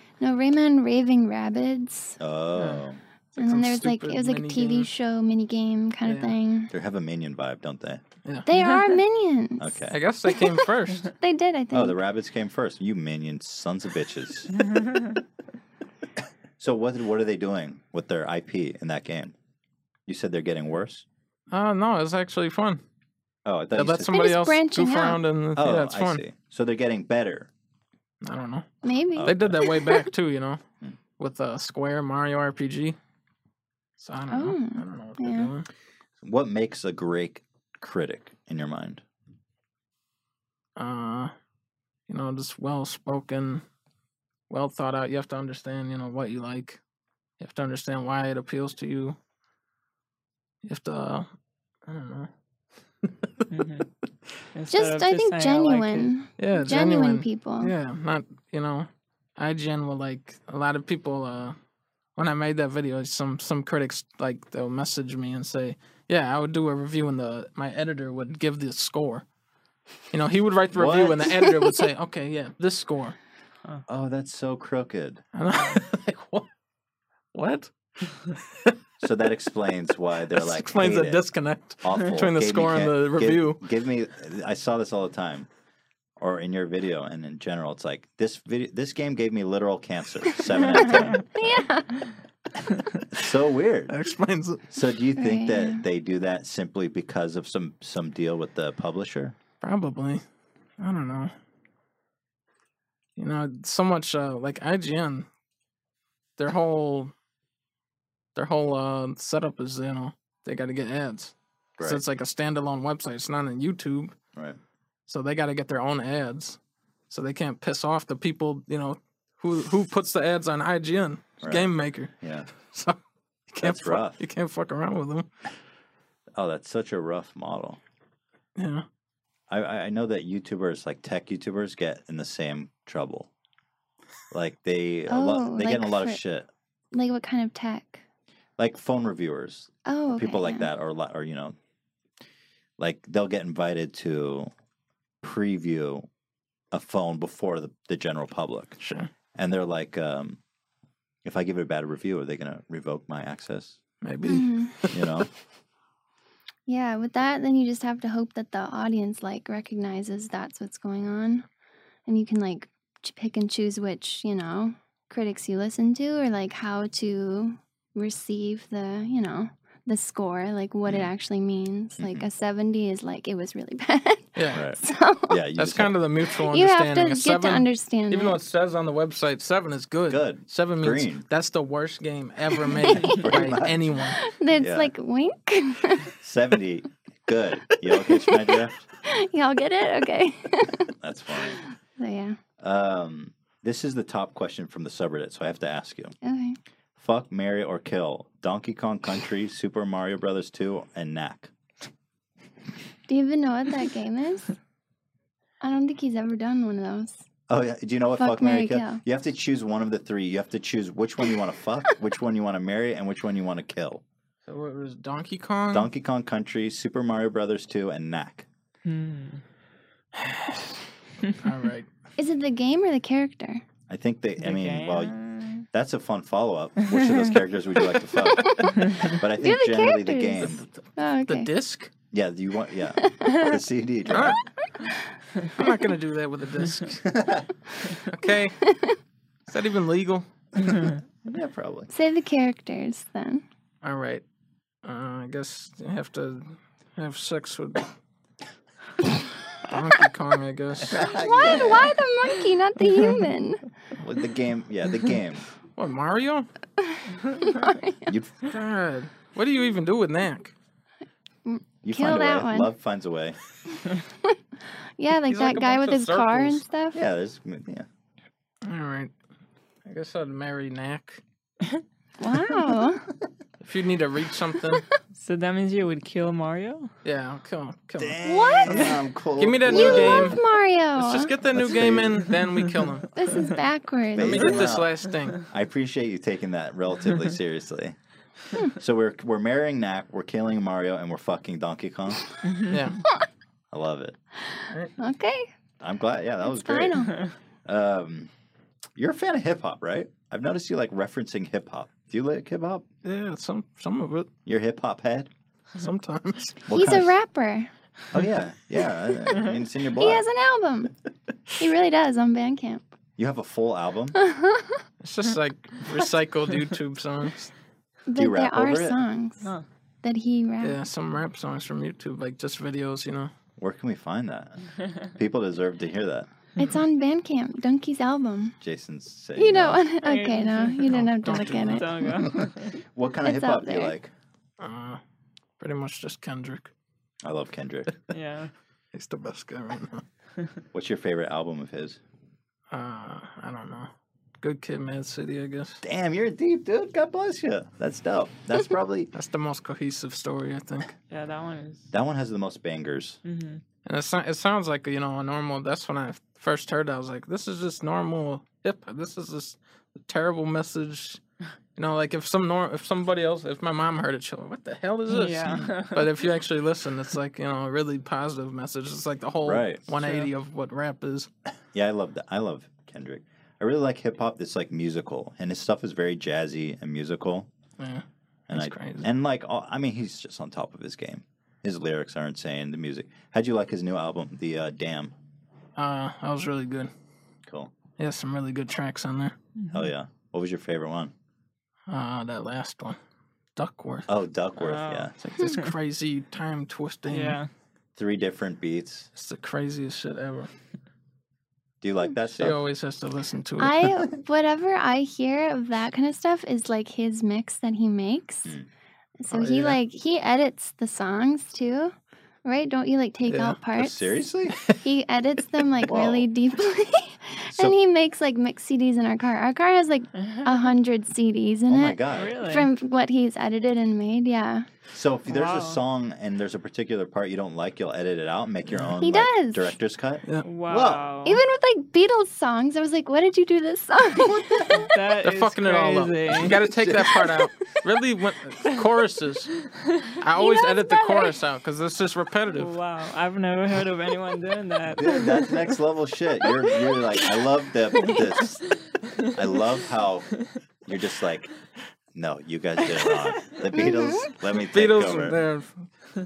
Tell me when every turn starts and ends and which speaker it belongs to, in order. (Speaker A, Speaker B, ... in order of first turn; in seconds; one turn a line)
Speaker A: 0.2-2.2
Speaker B: 2.2-3.0
Speaker C: 3.4-4.9
Speaker A: 3.4-6.7
Speaker C: 6.0-6.4
Speaker B: 6.7-8.0
Speaker C: 8.2-8.5
Speaker A: 8.4-9.8
Speaker B: 9.6-10.0
Speaker C: 9.9-11.1
Speaker A: 10.3-10.6
Speaker A: 11.2-12.0
Speaker B: 11.7-14.5
Speaker D: 14.8-15.2
Speaker B: 16.6-19.3
Speaker B: 20.1-21.1
Speaker C: 21.5-22.8
Speaker B: 23.5-24.2
Speaker C: 23.7-26.2
Speaker A: 24.1-25.2
Speaker B: 25.6-27.5
Speaker C: 28.2-28.7
Speaker A: 28.8-30.1
Speaker B: 29.2-29.5
Speaker C: 29.2-30.6
Speaker C: 31.2-33.0
Speaker C: 34.0-35.7
Speaker A: 34.3-35.5
Speaker B: 36.2-39.0
Speaker C: 40.8-41.3
Speaker C: 42.1-43.6
Speaker C: 44.5-46.8
Speaker C: 47.4-49.2
Speaker C: 50.6-51.3
Speaker C: 51.9-52.3
Speaker C: 53.0-53.5
Speaker D: 53.5-53.9
Speaker D: 54.5-56.1
Speaker A: 54.7-57.7
Speaker C: 56.4-61.6
Speaker C: 62.2-69.2
Speaker C: 70.1-73.2
Speaker B: 70.7-71.3
Speaker B: 73.9-75.2
Speaker C: 75.3-76.5
Speaker C: 77.3-78.8
Speaker B: 79.0-81.2
Speaker C: 80.3-83.6
Speaker B: 81.8-85.5
Speaker B: 86.2-91.3
Speaker A: 91.3-92.0
Speaker B: 93.1-93.9
Speaker C: 93.9-94.7
Speaker B: 94.7-99.4
Speaker A: 95.2-95.8
Speaker C: 99.6-100.2
Speaker C: 100.8-101.3
Speaker C: 103.2-105.3
Speaker C: 106.4-107.1
Speaker C: 108.3-114.2
Speaker B: 111.8-112.0
Speaker C: 115.1-116.6
Speaker C: 117.1-123.0
Speaker B: 121.4-122.5
Speaker C: 123.5-125.3
Speaker B: 123.6-124.2
Speaker B: 126.3-127.8
Speaker C: 128.6-128.9
Speaker B: 129.5-133.3
Speaker B: 134.3-136.5
Speaker A: 135.1-136.2
Speaker A: 136.9-138.0
Speaker B: 138.6-141.6
Speaker A: 139.9-140.7
Speaker B: 142.8-144.5
Speaker B: 145.2-146.1
Speaker B: 146.7-148.8
Speaker C: 148.8-149.1
Speaker B: 149.3-150.4
Speaker B: 151.2-153.8
Speaker C: 154.0-155.1
Speaker A: 154.3-154.8
Speaker B: 154.9-155.3
Speaker A: 156.7-161.5
Speaker A: 162.1-175.4
Speaker B: 172.0-172.2
Speaker C: 174.4-174.6
Speaker B: 174.5-176.0
Speaker C: 175.6-184.2
Speaker A: 176.4-178.4
Speaker B: 180.1-181.2
Speaker A: 182.7-183.2
Speaker B: 183.2-183.9
Speaker A: 184.1-186.1
Speaker B: 184.6-184.9
Speaker B: 186.2-188.9
Speaker A: 188.1-188.5
Speaker A: 189.1-192.4
Speaker B: 191.0-191.6
Speaker B: 192.6-196.2
Speaker A: 196.2-196.6
Speaker B: 197.0-201.5
Speaker A: 203.1-204.6
Speaker A: 205.6-207.2
Speaker B: 207.5-214.0
Speaker A: 208.2-209.0
Speaker C: 214.5-215.9
Speaker B: 215.7-218.5
Speaker D: 218.8-219.4
Speaker C: 220.2-220.8
Speaker C: 221.4-221.9
Speaker A: 222.2-223.6
Speaker B: 223.9-225.1
Speaker D: 224.4-225.7
Speaker B: 225.7-230.7
Speaker A: 228.3-231.5
Speaker C: 231.2-231.9
Speaker B: 232.1-234.4
Speaker A: 233.0-233.6
Speaker C: 234.1-234.4
Speaker C: 235.6-237.0
Speaker B: 237.0-237.5
Speaker C: 238.1-238.6
Speaker C: 239.5-240.3
Speaker B: 241.3-241.9
Speaker A: 241.9-243.4
Speaker C: 243.8-244.2
Speaker C: 244.8-247.9
Speaker C: 249.7-251.1
Speaker B: 250.9-251.9
Speaker A: 251.0-253.7
Speaker B: 254.0-255.4
Speaker C: 255.8-256.5
Speaker A: 256.9-258.1
Speaker B: 258.1-258.4
Speaker C: 258.5-260.5
Speaker A: 261.4-262.7
Speaker B: 261.8-263.4
Speaker A: 265.0-267.0
Speaker C: 265.2-266.6
Speaker B: 266.9-267.9
Speaker C: 268.6-269.1
Speaker C: 269.9-271.2
Speaker A: 272.2-273.1
Speaker C: 273.6-274.9
Speaker D: 275.1-276.9
Speaker C: 277.0-278.2
Speaker B: 278.0-280.4
Speaker A: 278.2-279.0
Speaker C: 279.4-280.4
Speaker A: 279.7-281.3
Speaker C: 280.9-283.1
Speaker B: 281.5-282.3
Speaker A: 283.1-284.7
Speaker B: 284.1-284.9
Speaker C: 284.2-285.4
Speaker B: 285.5-288.0
Speaker B: 288.8-292.2
Speaker D: 292.5-292.8
Speaker C: 292.7-293.0
Speaker B: 293.7-294.2
Speaker A: 294.5-295.5
Speaker B: 295.8-297.1
Speaker A: 296.4-297.3
Speaker B: 297.7-298.3
Speaker B: 299.0-302.8
Speaker C: 303.0-304.3
Speaker B: 304.5-305.3
Speaker C: 305.8-306.6
Speaker B: 306.6-307.1
Speaker A: 306.7-307.7
Speaker B: 308.1-310.2
Speaker A: 310.0-310.9
Speaker A: 311.6-312.9
Speaker B: 313.2-314.2
Speaker A: 314.2-314.8
Speaker C: 315.0-317.5
Speaker A: 318.1-319.5
Speaker B: 318.1-319.0
Speaker A: 320.0-320.8
Speaker C: 320.6-323.3
Speaker B: 323.6-324.6
Speaker B: 325.2-326.3
Speaker A: 326.6-328.6
Speaker B: 328.6-329.8
Speaker A: 329.4-331.9
Speaker D: 330.0-332.8
Speaker C: 330.9-332.4
Speaker B: 332.9-334.1
Speaker A: 333.2-333.9
Speaker C: 334.6-335.0
Speaker C: 335.6-336.7
Speaker B: 337.2-337.9
Speaker D: 338.1-338.5
Speaker C: 338.9-340.1
Speaker B: 340.7-342.0
Speaker C: 342.7-345.8
Speaker B: 345.8-349.1
Speaker C: 349.1-350.9
Speaker D: 351.1-351.9
Speaker B: 351.9-353.2
Speaker D: 353.2-353.6
Speaker C: 353.9-361.2
Speaker C: 361.8-371.3
Speaker D: 365.1-366.1
Speaker B: 365.4-365.7
Speaker B: 369.4-369.9
Speaker D: 370.0-370.3
Speaker B: 371.7-377.5
Speaker C: 377.8-379.1
Speaker B: 378.5-385.1
Speaker C: 385.8-386.9
Speaker C: 388.0-389.4
Speaker D: 389.6-389.8
Speaker B: 389.7-391.1
Speaker C: 391.9-393.0
Speaker C: 393.6-394.1
Speaker B: 394.1-395.1
Speaker D: 394.6-395.7
Speaker C: 395.2-397.4
Speaker D: 397.1-397.5
Speaker B: 398.0-399.1
Speaker C: 399.1-400.5
Speaker B: 401.8-402.6
Speaker C: 402.4-404.0
Speaker A: 403.6-408.6
Speaker A: 409.2-414.1
Speaker C: 409.3-409.8
Speaker C: 413.3-413.6
Speaker B: 413.8-414.6
Speaker A: 414.8-424.7
Speaker B: 415.8-416.3
Speaker B: 421.7-422.4
Speaker D: 422.1-422.7
Speaker B: 424.9-431.0
Speaker D: 425.3-425.8
Speaker A: 429.0-429.8
Speaker D: 430.4-431.4
Speaker A: 431.2-434.9
Speaker D: 434.8-436.6
Speaker C: 435.2-439.5
Speaker B: 436.7-437.0
Speaker C: 440.2-442.7
Speaker A: 440.4-441.4
Speaker D: 442.5-445.5
Speaker B: 445.0-448.6
Speaker B: 449.3-451.5
Speaker B: 452.1-455.4
Speaker A: 453.7-454.3
Speaker C: 454.7-455.9